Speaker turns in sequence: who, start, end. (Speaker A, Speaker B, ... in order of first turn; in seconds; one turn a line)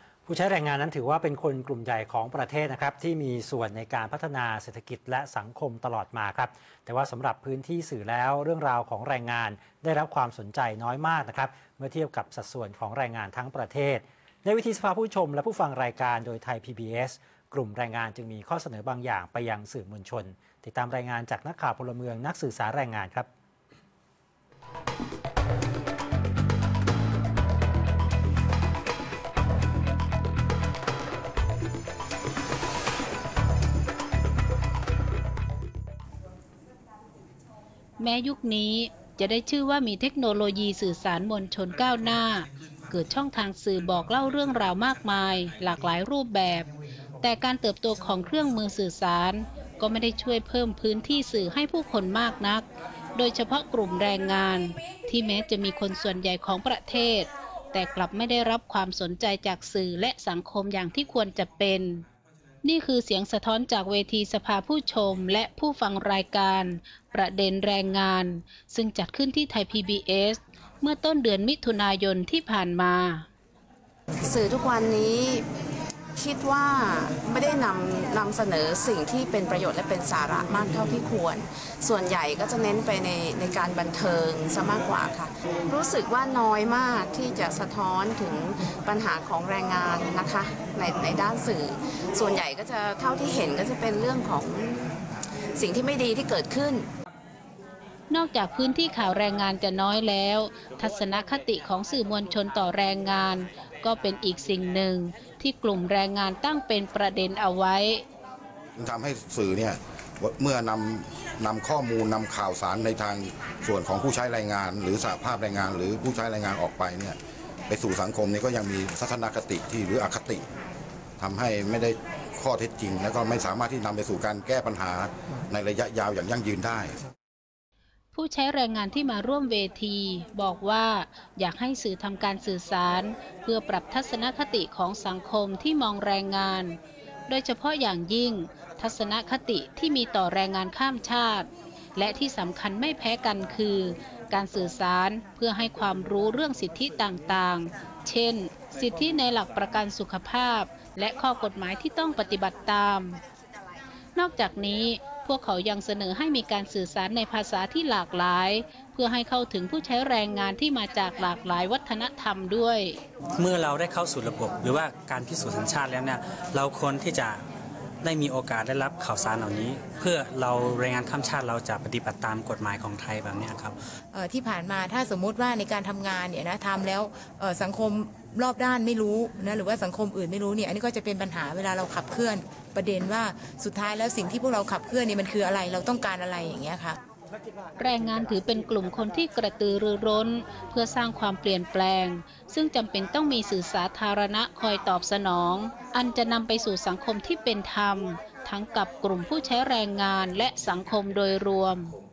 Speaker A: 0.3-23.3
Speaker B: 38.0-46.7
Speaker B: 47.2-62.0
Speaker B: 62.6-73.3
Speaker C: 74.2-75.5
Speaker C: 76.2-95.0
Speaker C: 95.6-96.9
Speaker B: 98.1-108.0
Speaker D: 108.8-117.2
Speaker D: 117.7-120.5
Speaker D: 121.2-127.0
Speaker B: 128.1-153.2
Speaker B: 154.2-163.0
Speaker E: 163.4-167.4
Speaker E: 168.0-173.8
Speaker F: 174.1-187.0
Speaker B: 187.8-201.9